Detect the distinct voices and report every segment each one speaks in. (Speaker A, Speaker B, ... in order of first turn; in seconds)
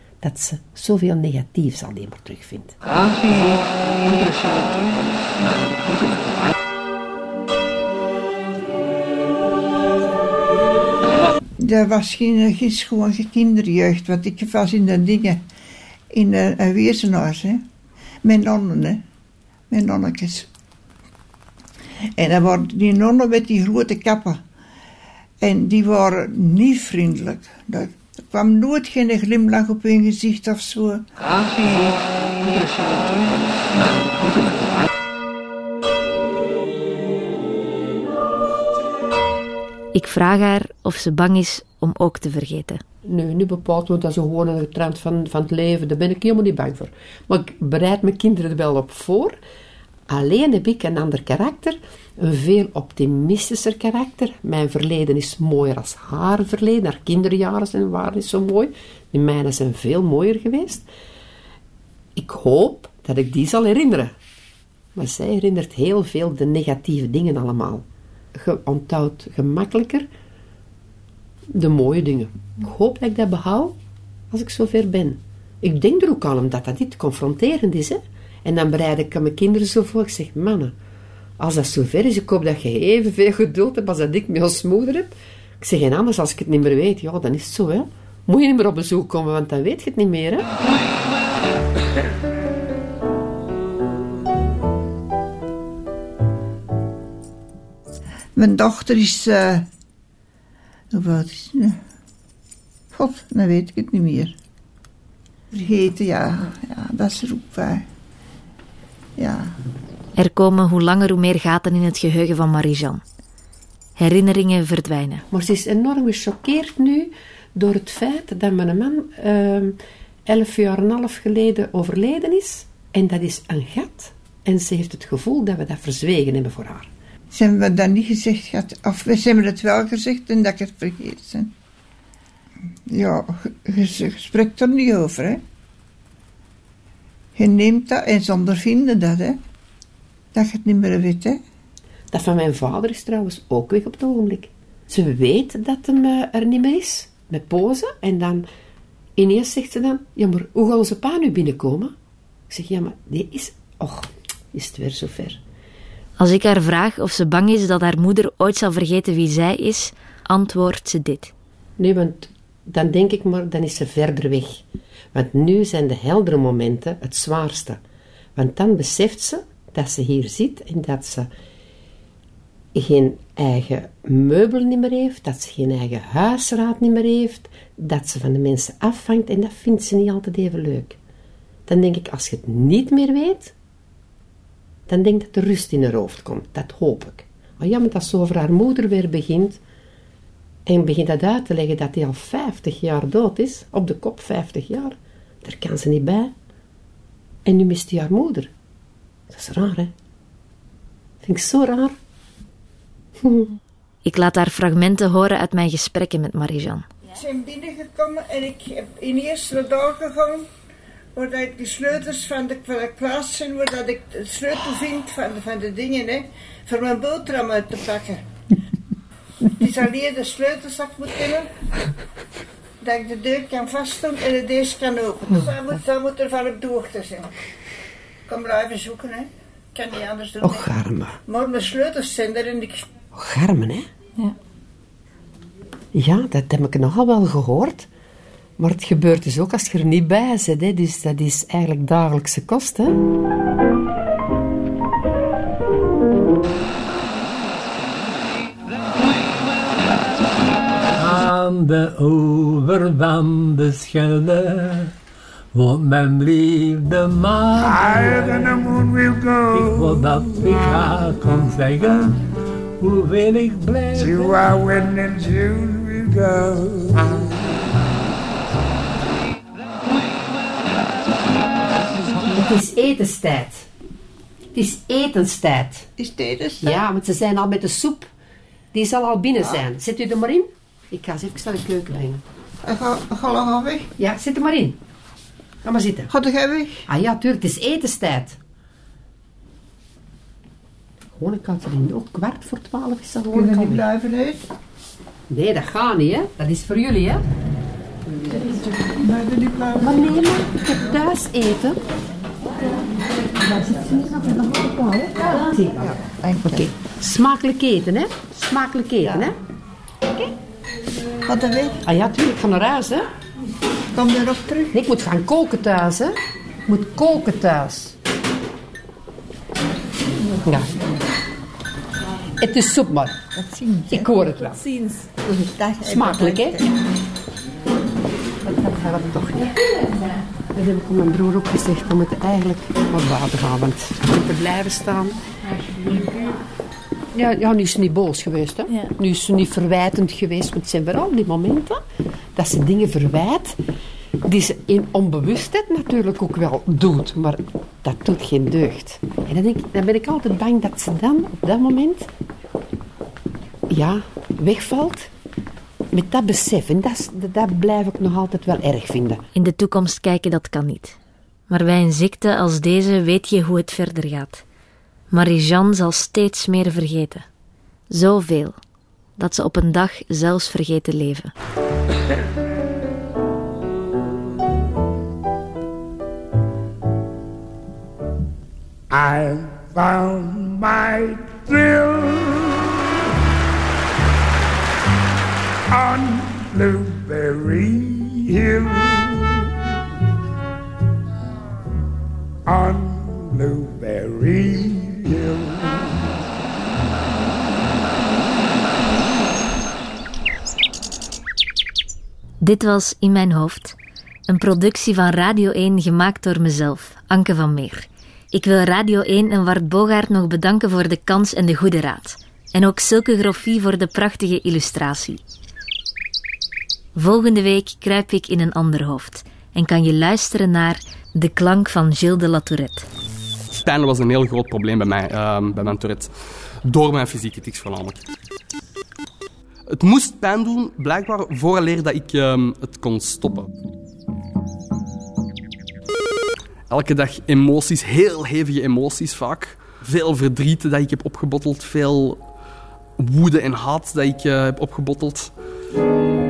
Speaker A: 0.2-4.6, 43.0-49.4, 50.1-60.9, 62.2-64.1, 65.0-70.1, 71.5-73.8, 74.3-80.7, 81.4-90.5, 115.3-126.9, 142.1-148.5, 149.2-151.9, 152.5-155.4, 161.8-164.6, 165.1-167.8, 168.4-171.3, 172.7-181.0, 181.7-183.5, 184.9-189.6, 190.7-196.3, 197.5-198.5, 199.3-199.9, 201.2-201.9, 203.2-203.5, 230.4-231.2, 233.1-233.9, 235.9-237.9, 238.6-243.0, 272.1-273.7, 274.5-275.9, 276.6-278.1, 278.7-282.2, 284.0-284.8, 285.6-286.1, 286.9-288.4, 291.1-293.9, 295.3-297.2, 298.1-298.8, 299.8-301.8, 303.3-309.4, 311.9-313.1, 314.7-316.1, 316.7-318.0, 320.4-320.9, 322.4-323.2, 323.9-324.6, 325.8-326.6, 328.4-329.7, 330.5-335.2, 335.8-336.3, 337.1-341.8, 342.4-343.6, 344.2-352.1, 353.7-355.1, 355.9-359.2
Speaker B: 11.6-15.4, 16.1-17.6, 18.2-19.0, 19.7-20.5, 22.2-24.4, 25.4-31.1, 98.3-99.7, 100.9-101.8, 102.9-104.4, 105.5-107.9, 109.2-109.6, 127.3-131.5, 132.9-135.4, 137.4-139.4, 140.3-141.4, 207.1-210.5, 211.2-218.3, 219.5-221.5, 222.8-227.4, 228.3-230.7, 231.3-232.9, 276.0-276.8, 282.6-283.9, 286.1-286.9, 293.3-294.5, 298.8-300.2, 305.8-306.7, 309.0-309.3, 311.3-311.8, 313.9-314.8, 323.4-324.6, 325.2-326.8
Speaker C: 39.9-42.8, 110.2-113.0, 114.0-115.2, 156.2-161.3, 204.1-206.8, 359.4-361.0, 361.5-364.4, 365.1-367.3, 367.9-368.6, 369.2-371.3, 402.4-403.8, 404.3-415.2, 416.9-422.9
Speaker D: 251.0-254.9, 255.5-258.8, 259.5-262.2, 262.8-264.6
Speaker E: 257.6-260.5, 263.9-267.6, 378.9-382.7, 385.7-389.5, 392.5-396.1
Speaker F: 423.6-426.1, 426.7-428.1, 429.8-433.6, 436.7-442.2, 443.0-445.3